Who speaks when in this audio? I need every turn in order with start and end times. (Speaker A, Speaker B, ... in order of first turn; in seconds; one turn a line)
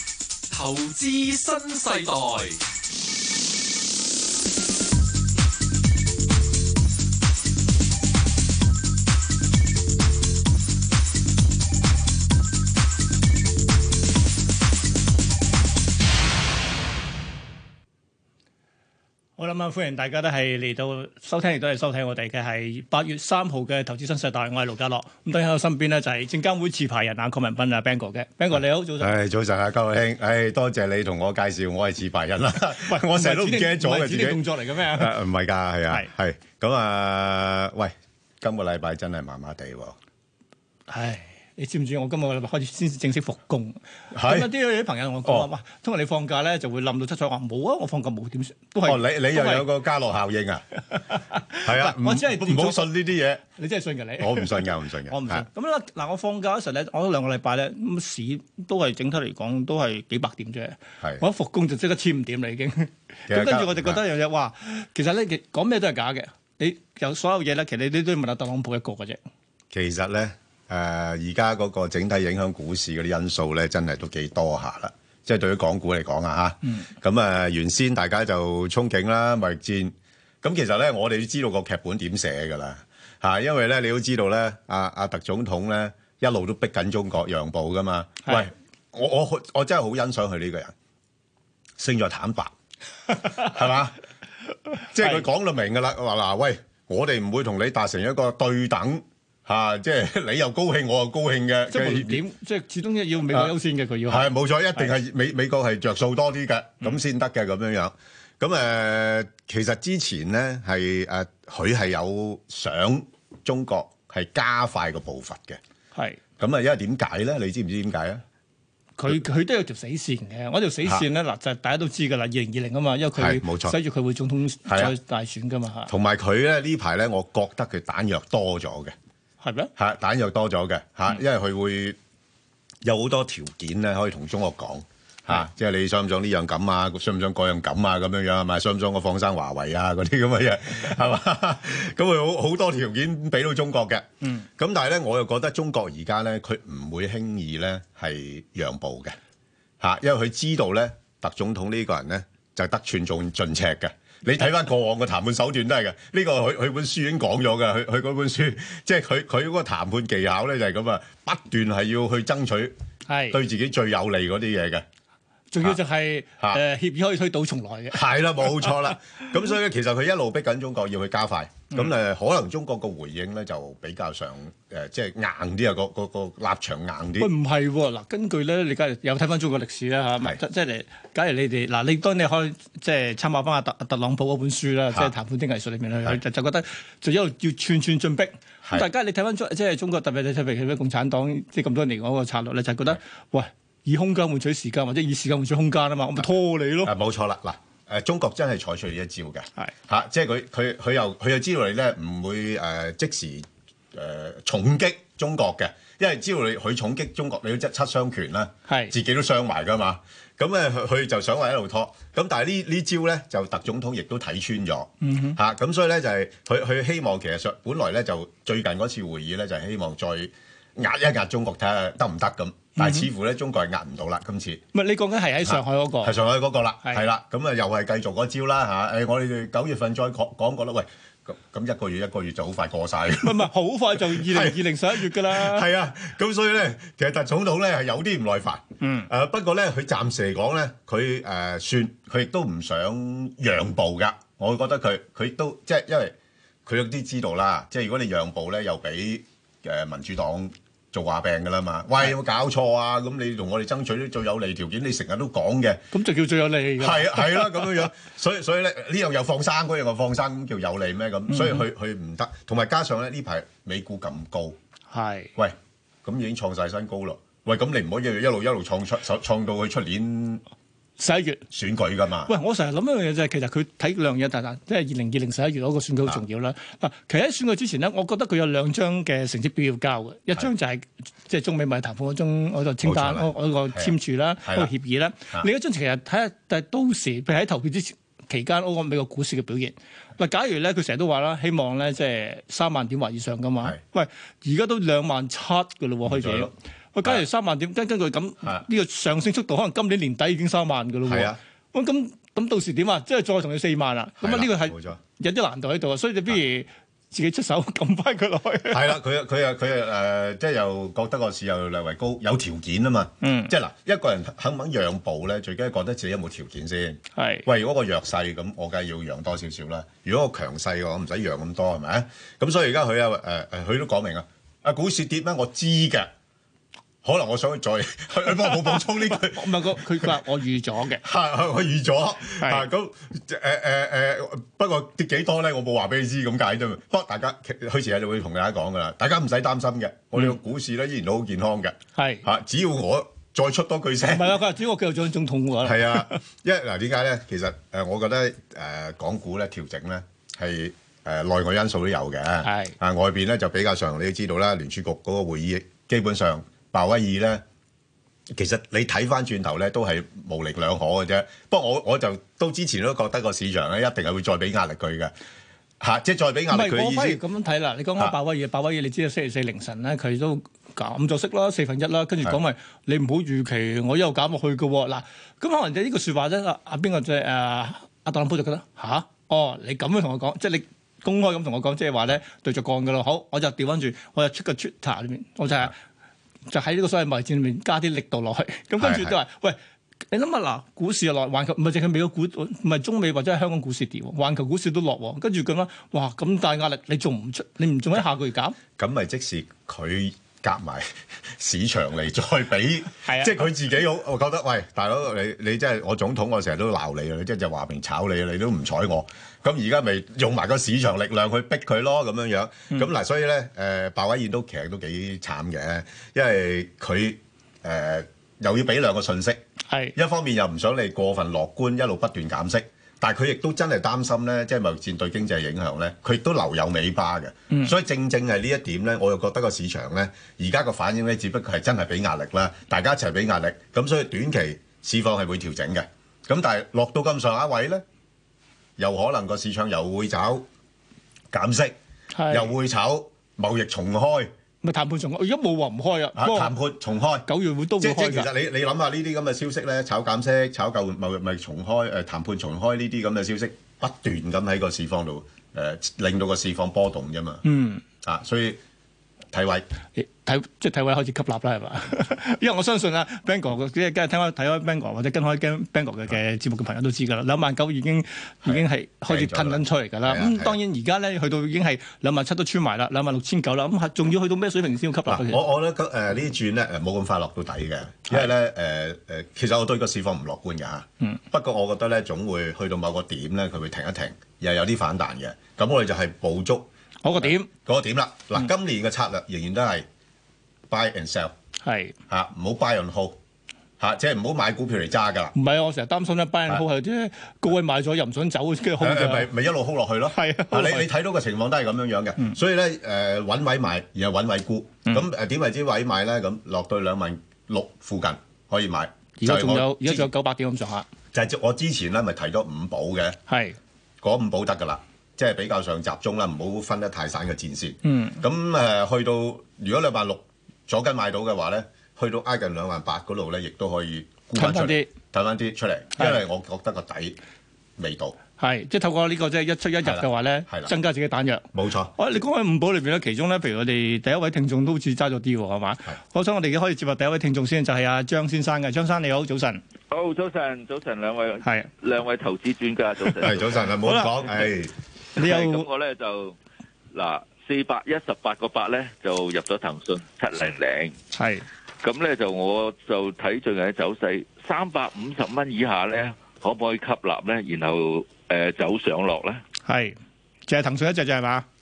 Speaker A: 0.5-2.6
Speaker B: 19.4-29.1
Speaker C: 28.6-40.0
Speaker B: 32.8-35.2
Speaker B: 40.9-49.7
Speaker C: 44.1-44.5
Speaker C: 48.9-50.6
Speaker B: 50.9-52.9
Speaker C: 51.6-53.4
Speaker B: 53.6-69.2
Speaker C: 54.2-55.5
Speaker C: 63.3-64.0
Speaker C: 69.7-90.7
Speaker C: 91.8-92.5
Speaker C: 93.2-94.0
Speaker C: 94.9-102.2
Speaker B: 101.7-105.0
Speaker C: 104.1-115.6
Speaker B: 116.0-116.2
Speaker C: 116.4-118.2
Speaker B: 119.0-125.9
Speaker C: 123.2-123.8
Speaker C: 124.7-125.0
Speaker C: 125.9-128.9
Speaker B: 129.4-129.7
Speaker C: 129.8-132.0
Speaker C: 132.8-149.2
Speaker C: 149.8-162.7
Speaker B: 163.1-163.4
Speaker C: 163.3-164.8
Speaker B: 165.5-168.7
Speaker C: 167.9-177.3
Speaker B: 177.2-196.9
Speaker C: 188.6-188.9
Speaker C: 196.8-224.6
Speaker B: 208.7-208.9
Speaker B: 215.0-215.4
Speaker B: 222.8-223.1
Speaker B: 224.7-226.2
Speaker C: 225.4-246.1
Speaker B: 233.2-235.7
Speaker B: 238.8-239.1
Speaker C: 246.7-255.8
Speaker B: 255.9-257.8
Speaker C: 256.8-264.6
Speaker B: 261.3-261.6
Speaker B: 264.9-265.3
Speaker C: 265.4-270.4
Speaker B: 271.0-271.4
Speaker C: 271.5-272.3
Speaker B: 272.3-308.9
Speaker C: 282.8-284.7
Speaker C: 296.1-296.5
Speaker C: 301.1-301.4
Speaker C: 304.2-305.0
Speaker C: 308.7-326.1
Speaker B: 313.2-313.5
Speaker B: 317.2-317.5
Speaker C: 327.0-330.1
Speaker B: 328.5-331.0
Speaker C: 331.0-344.4
Speaker B: 332.4-332.7
Speaker B: 342.0-342.2
Speaker B: 344.1-346.2
Speaker C: 345.6-357.4
Speaker B: 352.4-352.8
Speaker C: 358.3-365.1
Speaker C: 365.8-367.2
Speaker B: 366.5-385.7
Speaker B: 386.5-389.6
Speaker C: 388.8-389.1
Speaker B: 390.1-398.6
Speaker C: 398.8-419.4
Speaker B: 403.1-403.4
Speaker B: 419.7-419.9
Speaker C: 419.9-437.8
Speaker C: 438.8-440.5
Speaker C: 441.3-441.8
Speaker B: 442.1-442.5
Speaker C: 442.3-444.3
Speaker B: 444.6-446.6
Speaker C: 446.1-457.4
Speaker B: 447.3-448.3
Speaker B: 457.4-457.8
Speaker C: 458.0-458.6
Speaker C: 459.3-459.7
Speaker B: 460.0-475.4
Speaker C: 468.4-470.6
Speaker C: 475.1-489.9
Speaker B: 487.0-487.5
Speaker C: 490.7-491.3
Speaker B: 491.6-491.9
Speaker C: 492.1-493.2
Speaker C: 493.8-495.4
Speaker B: 495.4-499.3
Speaker C: 498.8-510.1
Speaker B: 500.1-500.9
Speaker B: 509.2-510.9
Speaker C: 511.1-513.2
Speaker B: 513.3-513.6
Speaker C: 514.0-527.2
Speaker B: 517.9-518.2
Speaker B: 524.4-524.9
Speaker C: 527.8-528.2
Speaker B: 528.4-539.6
Speaker C: 529.8-530.7
Speaker C: 531.5-531.9
Speaker D: 539.9-543.6
Speaker C: 543.2-544.7
Speaker B: 543.9-544.2
Speaker B: 545.2-545.7
Speaker D: 545.2-546.4
Speaker D: 546.9-551.0
Speaker B: 551.1-551.5
Speaker D: 551.8-559.4
Speaker B: 559.6-560.0
Speaker B: 560.5-561.5